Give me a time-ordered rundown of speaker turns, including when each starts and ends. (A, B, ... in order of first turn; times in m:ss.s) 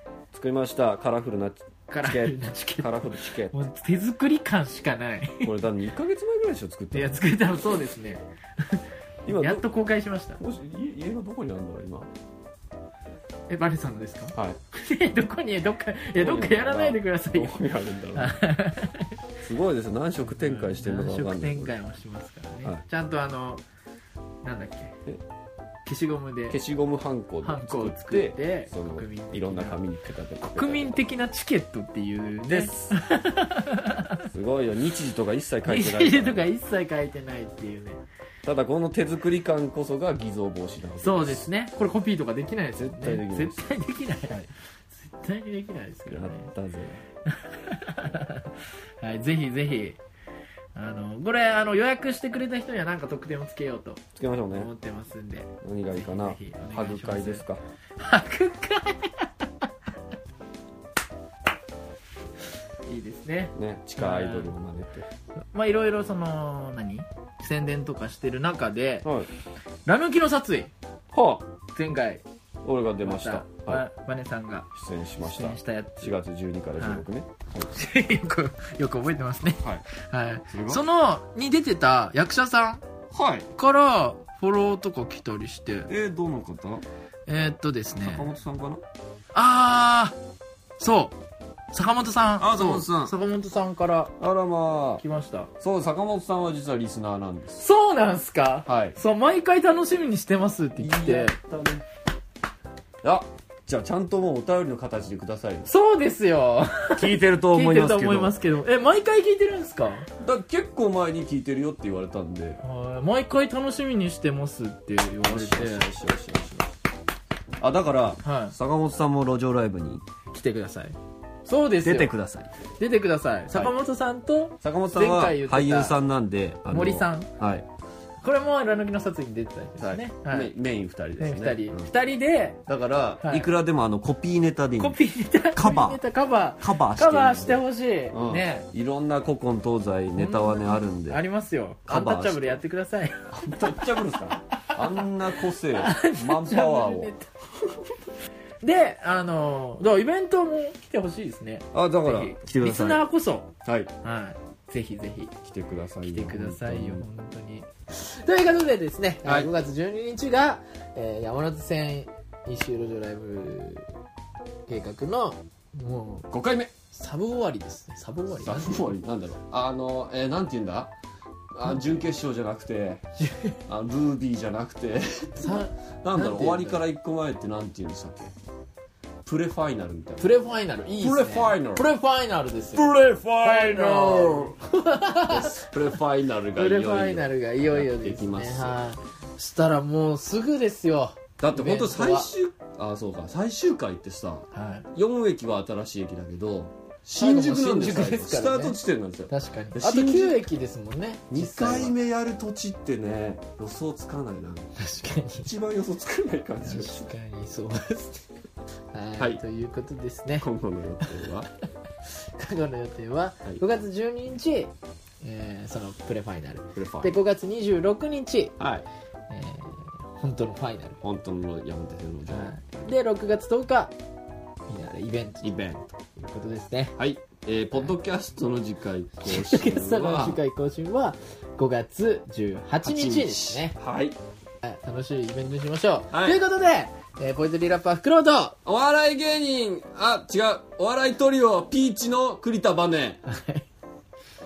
0:00.3-0:03.5 A
0:01.9-0:05.5 B
0:05.4-0:07.2 A
0:06.9-0:10.4 B
0:09.2-0:09.7 A
0:10.4-0:12.1 A
0:13.5-0:17.6 B
0:14.3-0:14.6 A
0:16.2-0:18.4 A
0:18.1-0:19.1 B
0:19.4-0:21.7 A
0:20.3-0:23.6 B
0:24.4-0:25.0 B
0:25.8-0:26.6 B
0:26.5-0:31.0 A
0:27.4-0:29.8 B
0:30.5-0:34.3 B
0:32.5-0:32.9 A
0:34.3-0:36.4 A
0:35.6-0:38.0 B
0:38.4-0:41.5 A
0:41.0-0:46.5 B
0:42.8-0:43.6 A
0:46.1-0:47.0 A
0:47.3-0:50.0 B
0:50.7-0:57.4 B
0:54.2-0:54.7 A
0:55.6-0:57.6 A
0:58.0-0:59.7 B
1:02.8-1:04.5 B
1:03.5-1:05.1 A
1:05.5-1:09.1 B
1:09.0-1:09.3 A
1:09.8-1:10.7 B
1:11.1-1:11.4 A
1:11.7-1:12.2 B
1:12.6-1:13.8 A
1:13.0-1:14.7 B
1:14.7-1:17.7 A
1:15.2-1:16.1 B
1:16.8-1:17.0 B
1:17.7-1:22.8 B
1:20.5-1:20.8 A
1:23.1-1:23.5 A
1:23.5-1:25.9 B
1:25.9-1:26.8 A
1:27.3-1:28.3 B
1:28.0-1:28.8 A
1:29.3-1:30.2 B
1:30.8-1:31.2 B
1:31.7-1:34.1 B
1:32.4-1:33.1 A
1:34.2-1:35.0 A
1:35.0-1:35.5 B
1:35.6-1:37.6 A
1:37.6-1:41.4 B
1:38.7-1:39.0 A
1:40.8-1:41.8 A
1:43.0-1:45.7 A
1:45.7-1:50.1 B
1:47.0-1:48.4 A
1:50.2-1:52.6 A
1:52.6-1:55.9 B
1:55.2-1:56.7 A
1:57.6-2:00.0 A
1:58.2-1:58.6 B
2:00.3-2:02.1 B
2:01.8-2:02.5 A
2:02.8-2:06.0 B
2:04.6-2:07.7 A
2:06.7-2:07.3 B
2:08.2-2:10.5 B
2:09.8-2:11.9 A
2:11.2-2:12.6 B
2:12.7-2:16.0 A
2:13.2-2:13.5 B
2:14.8-2:18.7 B
2:16.6-2:21.2 A
2:20.2-2:23.7 B
2:21.9-2:22.6 A
2:23.3-2:27.1 A
2:24.4-2:27.3 B
2:28.6-2:33.5 B
2:31.7-2:33.0 A
2:33.6-2:33.9 A
2:34.0-2:35.3 B
2:35.4-2:37.0 A
2:36.0-2:43.9 B
2:39.2-2:39.5 A
2:44.7-2:46.3 B
2:46.3-2:46.7 A
2:46.9-2:48.9 B
2:48.3-2:50.9 A
2:51.5-2:53.0 A
2:53.2-2:53.6 B
2:53.7-2:58.3 A
2:55.4-2:56.8 B
2:59.2-3:00.3 A
3:00.2-3:05.7 B
3:01.0-3:01.9 A
3:02.7-3:04.5 A
3:05.3-3:08.8 A
3:06.5-3:12.3 B
3:11.4-3:20.5 A
3:14.5-3:14.9 B
3:17.2-3:18.8 B
3:19.3-3:21.9 B
3:21.3-3:24.7 A
3:24.8-3:25.5 B
3:25.4-3:27.1 A
3:26.6-3:28.3 B
3:28.9-3:30.5 B
3:30.4-3:31.5 A
3:32.0-3:38.5 B
3:36.7-3:37.1 A
3:38.6-3:38.8 A
3:39.3-3:41.0 B
3:41.0-3:42.6 A
3:42.3-3:43.9 B
3:44.7-3:47.0 B
3:45.4-3:45.8 A
3:47.0-3:50.4 A
3:49.2-3:53.7 B
3:52.8-3:54.2 A
3:54.6-3:58.6 B
3:56.1-3:56.4 A
3:58.6-4:03.2 A
4:03.2-4:03.6 B